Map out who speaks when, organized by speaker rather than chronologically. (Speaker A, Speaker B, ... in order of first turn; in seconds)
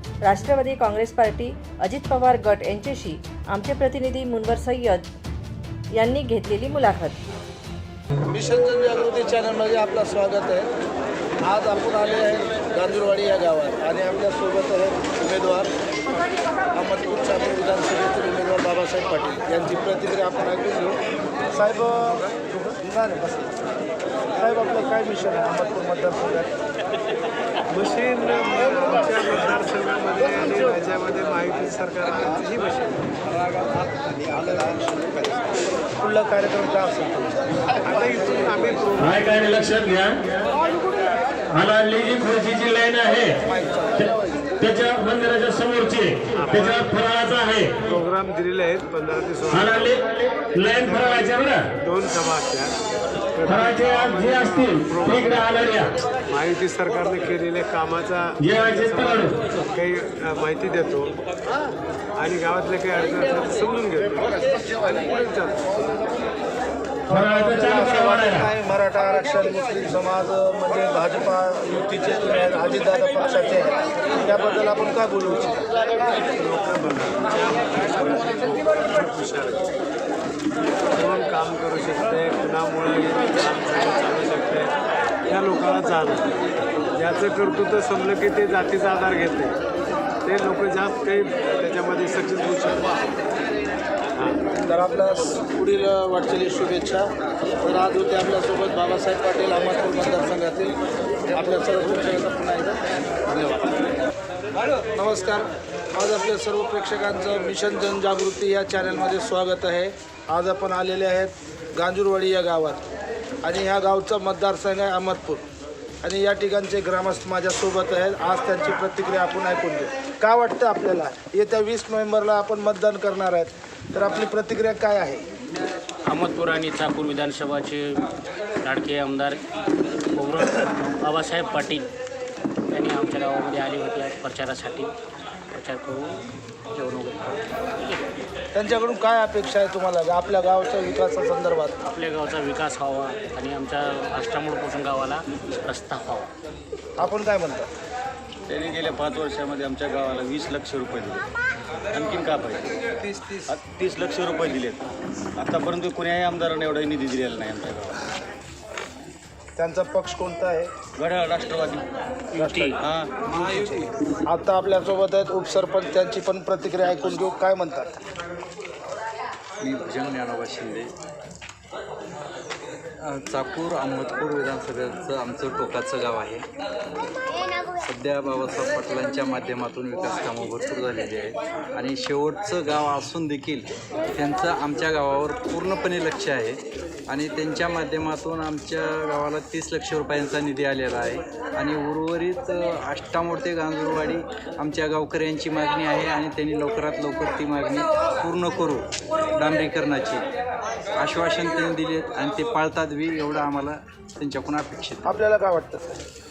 Speaker A: 0.2-5.1, 5.9-7.2
Speaker B: 8.3-10.7, 11.4-15.7, 16.7-21.0, 21.5-23.6, 24.4-26.5, 34.2-35.4, 36.0-37.7, 43.4-44.2, 67.1-75.6, 94.5-100.8, 101.3-103.8, 105.0-112.8, 113.4-115.4, 116.0-125.2, 138.6-141.8, 147.0-147.7, 159.6-160.7, 162.3-167.9, 205.0-205.8
Speaker C: 27.7-33.1, 37.8-39.6, 46.3-47.1, 47.8-50.0, 50.6-52.8, 53.4-61.2, 62.2-66.0, 76.2-79.7, 80.9-84.7, 85.3-86.4, 87.0-89.6, 90.2-93.0, 94.1-94.4
Speaker D: 39.0-40.3, 41.5-43.4, 44.6-47.9, 49.5-51.7, 53.5-56.0, 58.4-59.4, 67.1-68.5
Speaker E: 126.1-128.0, 128.6-129.4, 130.2-131.9, 132.7-134.9, 135.5-136.2, 136.7-138.1, 141.8-146.3
Speaker F: 148.5-151.3, 151.9-152.8, 153.5-154.8, 155.4-158.0, 161.0-161.9, 162.7-163.1
Speaker G: 169.6-170.9, 173.0-176.4, 177.8-186.6, 187.1-198.8, 199.4-200.2, 201.0-205.0